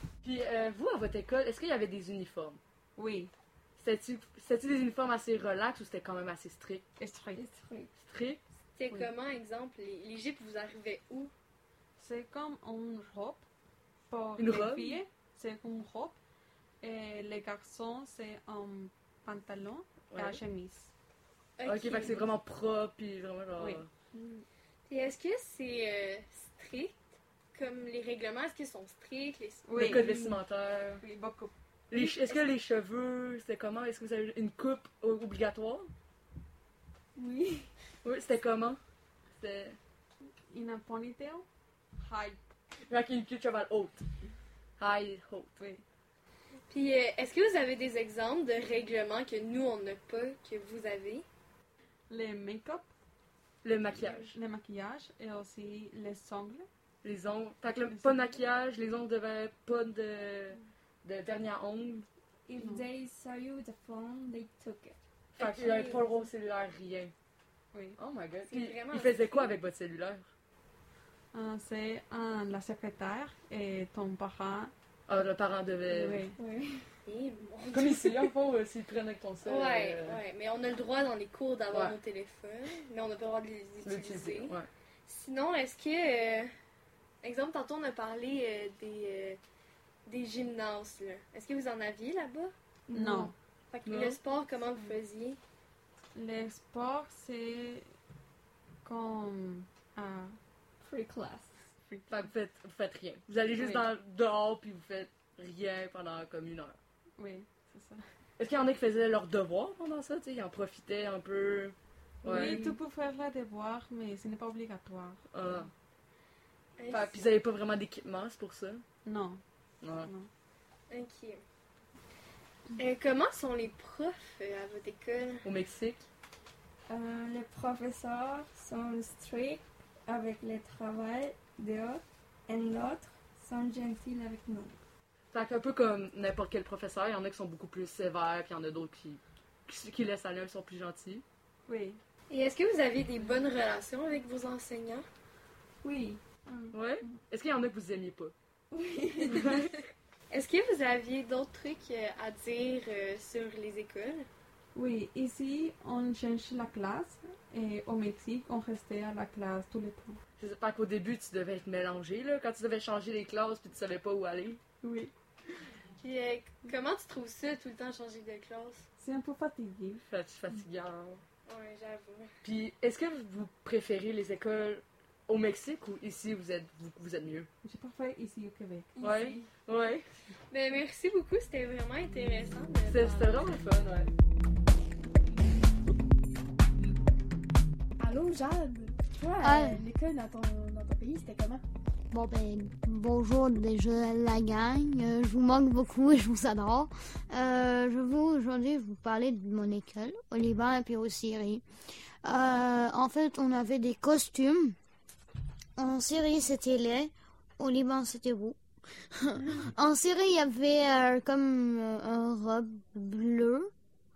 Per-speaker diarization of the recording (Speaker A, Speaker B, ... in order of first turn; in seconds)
Speaker A: 0.2-2.6, 3.8-6.8, 8.0-8.4, 14.4-15.0, 20.1-20.4, 21.6-23.9, 29.7-31.0, 31.9-35.9, 38.0-38.8, 39.3-39.8, 42.9-44.0, 44.8-45.5, 53.6-54.4, 57.0-62.1, 65.4-67.1, 68.0-70.3, 75.1-76.3, 77.7-80.2, 81.7-82.0, 83.8-84.7, 93.8-94.2, 102.1-106.8, 108.4-112.8, 115.3-115.7, 116.9-118.8, 119.8-120.1, 125.4-126.1, 135.3-141.2, 146.7-148.3, 149.3-149.6, 160.4-164.6, 170.1-171.2, 172.4-177.5, 179.0-180.0, 182.9-184.1
Speaker B: 3.0-3.3, 7.0-7.6, 12.0-13.4, 14.1-16.2, 16.8-20.9, 23.6-23.8, 29.6-30.4, 31.0-32.4, 40.5-41.5, 42.0-42.4, 52.1-52.9, 53.9-56.6, 57.6-58.4, 62.5-62.9, 67.7-68.0, 71.3-74.7, 75.8-76.3, 92.9-93.3, 96.1-97.9, 98.8-100.4, 101.8-102.3, 103.5-103.9, 107.2-108.0, 112.2-115.6, 119.0-119.4, 120.0-120.3, 141.7-142.0, 145.8-146.2, 154.7-160.2, 164.8-165.1, 169.0-170.0, 177.6-179.4
Speaker C: 7.3-8.0, 37.2-37.6, 62.5-65.0, 65.8-66.2, 76.4-76.8, 100.8-101.6, 126.9-134.8, 145.9-146.8, 148.8-149.7
Speaker D: 8.7-11.3, 21.6-22.2, 24.1-27.0, 27.5-29.7, 46.7-51.2, 65.4-66.0, 68.5-69.5, 77.0-78.4, 79.5-86.5, 87.2-89.4, 90.0-92.5, 93.7-95.4, 116.8-117.3, 120.9-121.4, 122.8-125.5, 142.3-145.1, 150.3-154.3, 166.0-168.8, 171.4-172.3, 180.5-183.5
Speaker E: 93.0-93.3, 188.0-191.6
Speaker F: 189.4-189.8, 192.1-201.6, 202.2-204.8, 205.8-208.6, 209.1-213.7